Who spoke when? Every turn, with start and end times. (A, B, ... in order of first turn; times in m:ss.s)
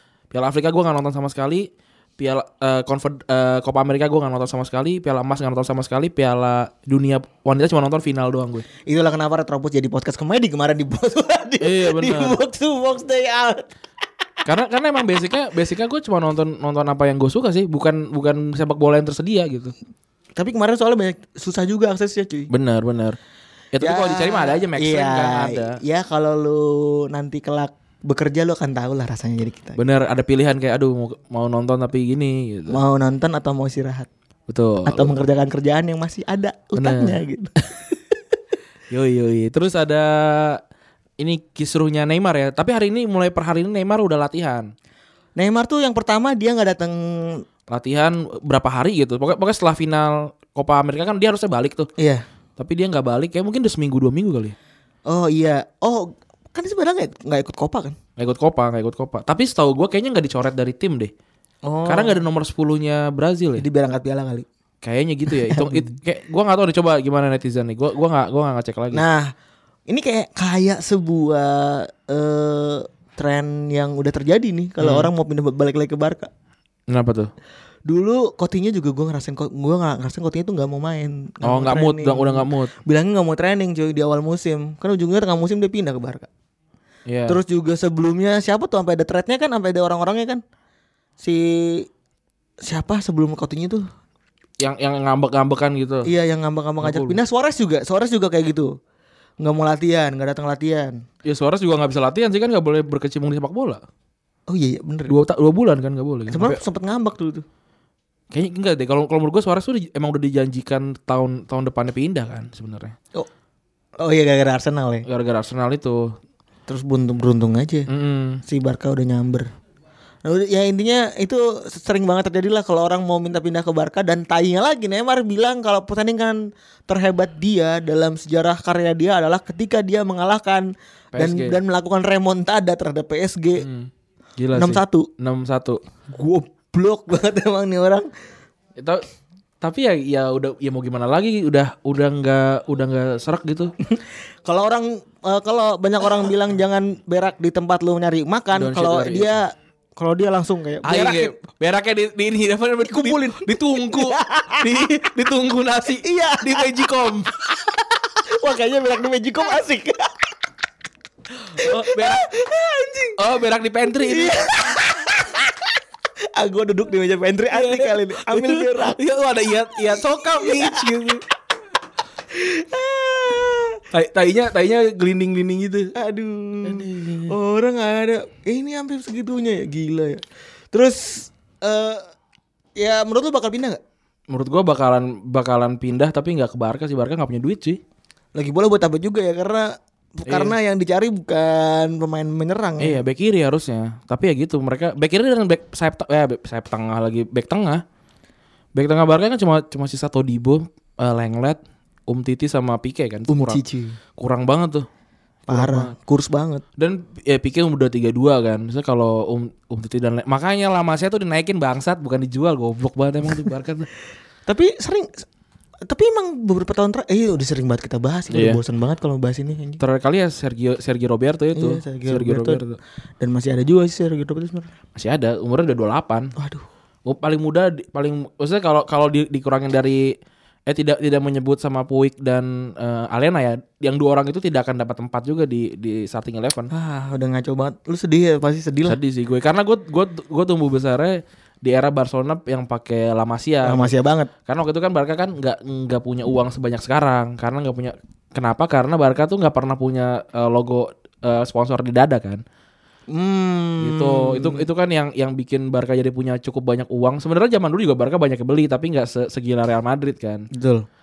0:00.3-0:08.6 A
0:08.8-0:13.7 B
0:11.6-0:12.4 A
0:14.4-0:19.7 A
0:20.4-0:22.5 B
0:22.5-0:23.2 A
0:23.7-0:25.8 A
0:23.8-0:29.8 B
0:29.8-0:32.8 A
0:32.7-0:34.1 B
0:34.5-0:35.2 A
0:34.8-0:37.5 B
0:36.8-0:37.2 A
0:38.9-0:40.6 A
0:41.2-0:44.7 A
0:45.4-0:47.4 B
0:47.7-0:51.9 A
0:52.0-0:52.2 B
0:52.6-0:54.6 A
0:55.1-0:58.0 B
0:58.2-1:01.1 A
1:01.6-1:02.2 B
1:01.8-1:03.6 A
1:03.6-1:04.5 B
1:04.8-1:09.0 A
1:05.3-1:05.9 B
1:08.9-1:09.3 B
1:09.9-1:16.3 B
1:14.8-1:15.1 A
1:16.9-1:17.3 A
1:17.8-1:26.3 B
1:21.4-1:22.7 A
1:27.1-1:27.4 A
1:27.3-1:30.4 B
1:31.2-1:31.9 B
1:32.6-1:33.8 B
1:34.6-1:36.1 A
1:36.0-1:38.7 B
1:36.8-1:37.2 A
1:39.4-1:41.0 B
1:41.2-1:43.8 A
1:44.5-1:45.1 B
1:45.1-1:46.6 A
1:46.3-1:47.4 B
1:48.3-1:52.9 A
1:54.0-1:55.0 B
1:55.0-1:56.1 A
1:56.7-1:57.9 B
1:57.9-1:58.4 A
1:58.4-1:59.5 B
2:00.2-2:13.7 B
2:11.1-2:11.6 A
2:13.6-2:15.8 A
2:14.5-2:15.1 B
2:16.1-2:18.1 B
2:18.8-2:19.0 A
2:19.6-2:23.7 A
2:23.8-2:31.3 B
2:28.5-2:29.3 A
2:30.8-2:37.3 A
2:32.8-2:34.8 B
2:36.0-2:36.9 B
2:38.2-2:40.1 B
2:41.5-2:43.1 B
2:41.5-2:42.2 A
2:43.2-2:44.5 A
2:44.0-2:45.5 B
2:46.3-2:49.0 B
2:47.5-2:51.2 A
2:49.7-2:50.8 B
2:52.3-2:53.8 B
2:53.9-2:55.9 A
2:55.9-3:02.1 B
2:56.6-2:57.3 A
3:02.8-3:03.8 B
3:04.3-3:07.8 A
3:08.3-3:13.0 B
3:10.3-3:10.5 A
3:12.8-3:17.8 A
3:18.7-3:23.6 A
3:23.3-3:24.0 B
3:24.2-3:24.9 A
3:25.5-3:25.9 A
3:25.5-3:26.6 B
3:26.8-3:33.9 A
3:34.5-3:35.2 B
3:35.8-3:39.8 B
3:38.3-3:38.6 A
3:39.8-3:42.8 A
3:41.5-3:42.6 B
3:43.2-3:44.7 B
3:45.0-3:46.3 A
3:46.4-3:46.6 B
3:47.0-3:50.2 A
3:50.7-3:56.7 A
3:56.7-3:59.0 B
3:58.8-4:03.9 A
4:03.6-4:04.3 B
4:04.5-4:12.4 A
4:13.1-4:14.6 B
4:13.8-4:20.5 A
4:20.5-4:20.8 B